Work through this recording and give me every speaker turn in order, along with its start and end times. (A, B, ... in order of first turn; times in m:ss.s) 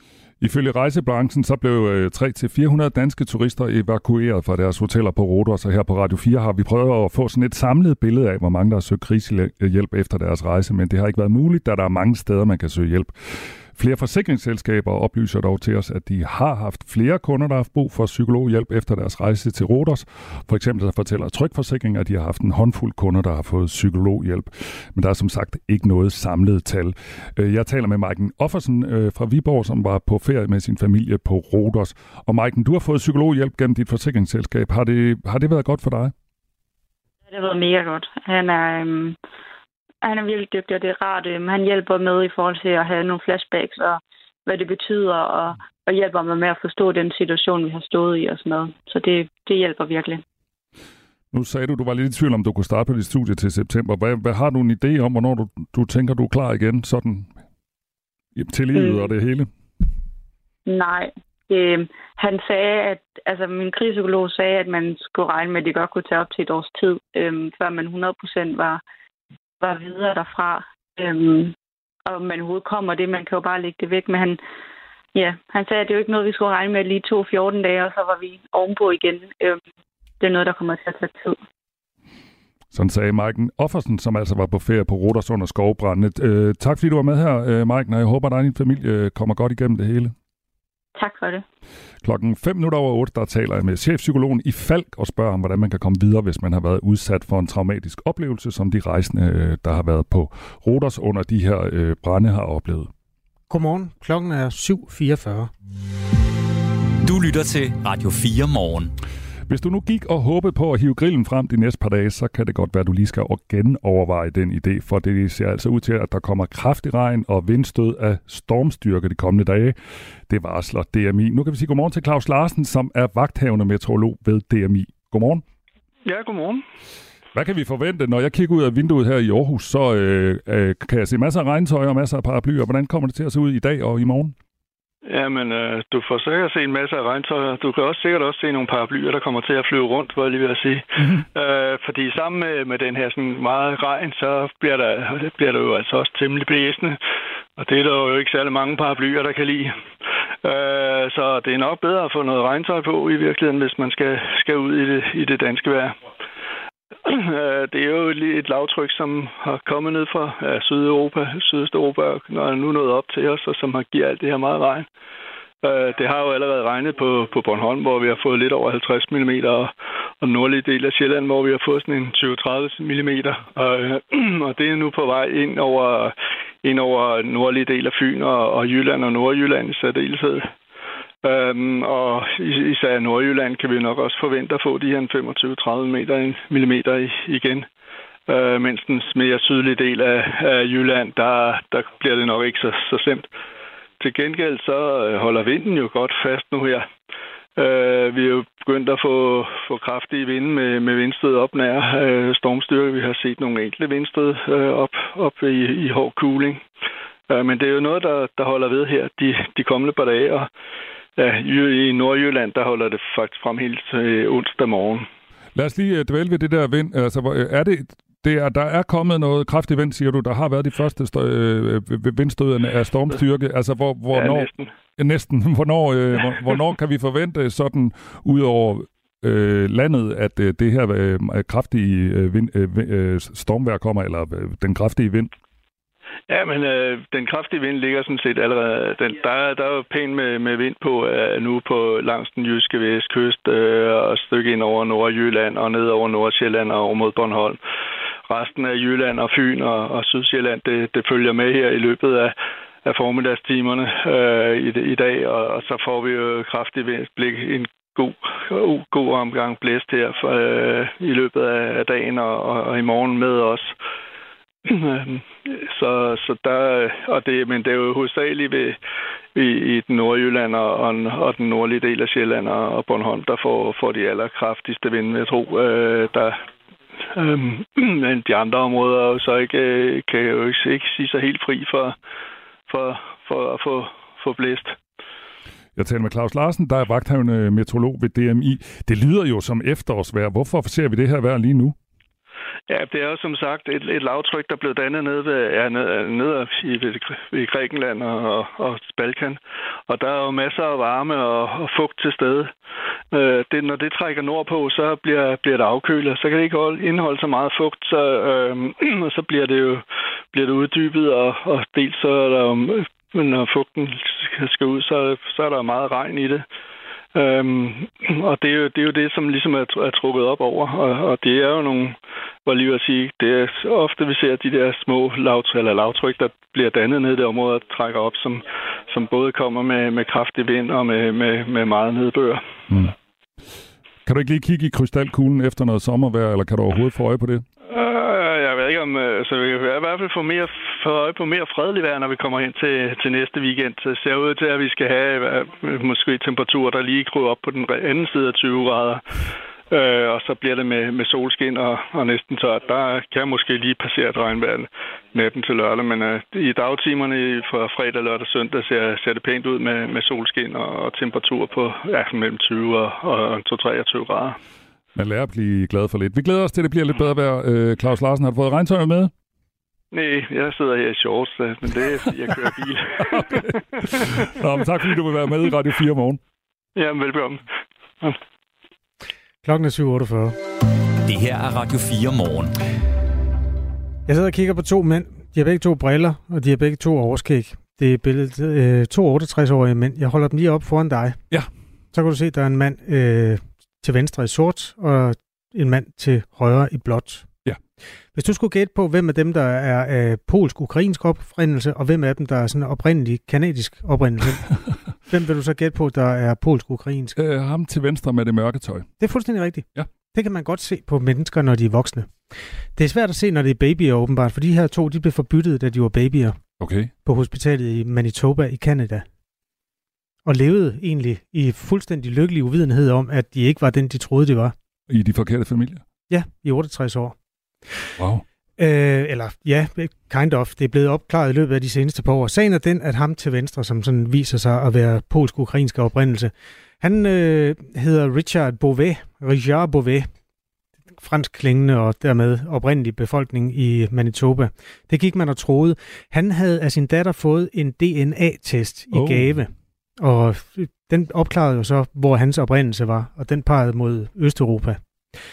0:00.4-0:36.1 A
0:37.3-0:39.2 B
0:40.0-0:50.2 B
0:51.3-0:57.3 A
0:58.4-0:59.5 A
0:58.7-0:59.1 B
1:00.7-1:08.8 B
1:09.6-1:11.6 B
1:12.1-1:14.4 B
1:15.2-1:19.6 B
1:20.2-1:21.4 B
1:22.7-1:30.1 A
1:31.0-1:31.4 B
1:32.0-1:42.9 A
1:43.5-1:45.5 C
1:47.0-1:48.9 D
1:49.5-1:59.8 A
2:00.3-2:05.4 A
2:06.0-2:06.6 E
2:07.3-2:14.4 A
2:15.1-2:27.0 E
2:27.6-2:29.7 E
2:30.4-2:36.0 E
2:37.1-2:44.9 E
2:45.6-3:00.5 E
3:01.2-3:07.7 E
3:08.3-3:13.3 E
3:14.0-3:16.9 E
3:17.6-3:26.6 E
3:27.3-3:30.5 E
3:31.2-3:35.1 E
3:35.6-3:55.3 A
3:44.1-3:44.7 E
3:56.3-4:07.6 E
4:08.3-4:12.3 E
4:12.8-4:23.7 E
4:24.7-4:28.8 E
4:29.4-4:36.4 E
4:37.1-4:42.0 E
4:42.7-4:44.8 E
4:45.8-4:51.8 A
4:52.7-5:02.5 E
5:03.1-5:16.4 E
5:17.2-5:32.4 E
5:32.7-5:32.9 A
5:34.1-5:37.4 A
5:37.7-5:49.0 E
5:49.7-6:04.4 E
6:05.0-6:09.1 A
6:09.9-6:14.3 E
6:13.1-6:16.2 A
6:16.8-6:17.4 E
6:19.4-6:20.4 C
6:21.1-6:22.5 D
6:24.1-6:31.2 C
6:31.9-6:37.3 C
6:38.2-6:47.2 C
6:47.2-6:48.9 A
6:49.0-6:52.2 C
6:52.8-6:56.4 C
6:56.6-6:56.9 A
6:57.0-6:59.0 C
7:00.3-7:04.6 C
7:04.9-7:05.8 A
7:06.1-7:07.2 C
7:08.0-7:08.2 A
7:08.6-7:20.1 C
7:21.0-7:34.8 C
7:28.9-7:29.3 A